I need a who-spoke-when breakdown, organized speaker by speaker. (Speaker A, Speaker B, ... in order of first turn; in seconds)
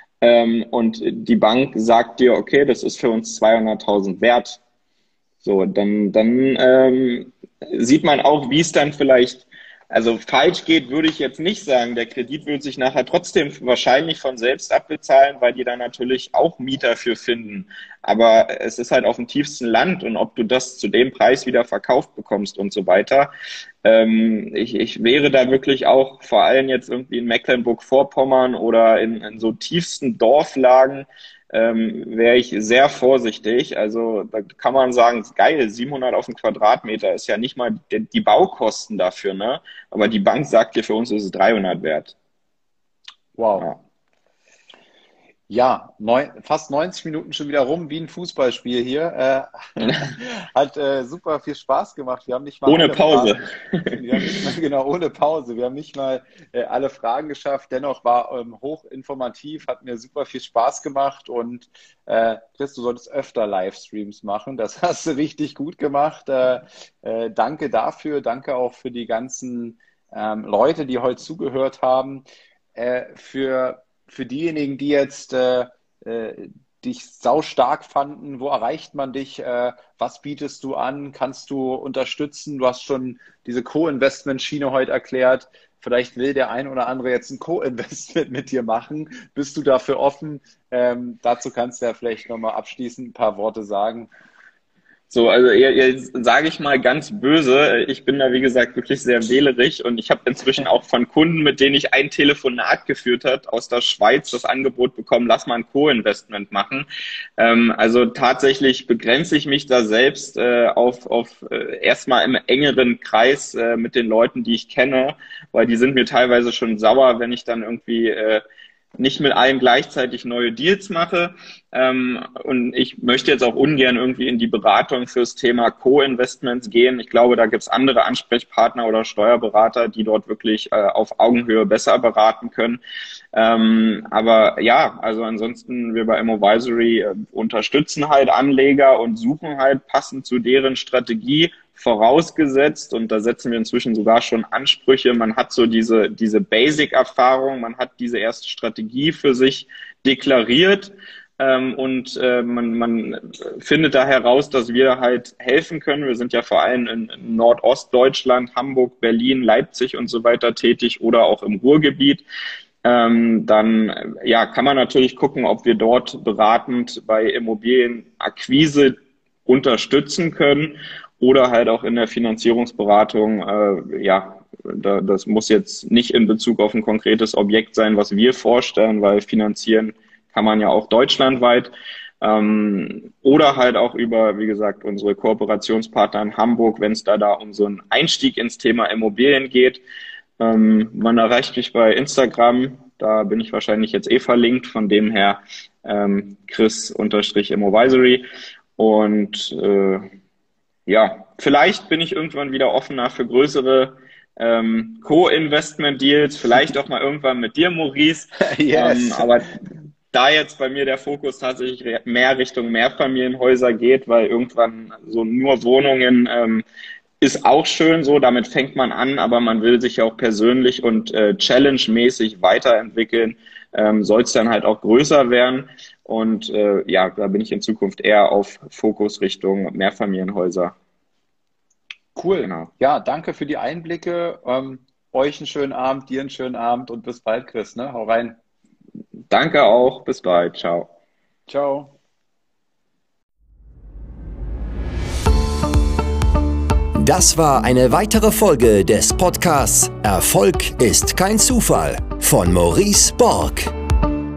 Speaker A: 0.2-4.6, 5.4-23.3, 23.8-42.1, 52.7-54.0, 95.1-106.9, 107.4-118.4, 119.0-132.8, 133.3-162.2, 162.8-189.8, 190.4-198.3, 198.8-200.1, 200.9-209.6, 210.1-216.7, 217.2-230.7, 239.3-240.9
Speaker B: 43.4-43.7, 45.5-72.2, 72.8-94.1, 208.4-209.3, 232.2-238.4, 241.5-241.9
Speaker C: 247.0-253.7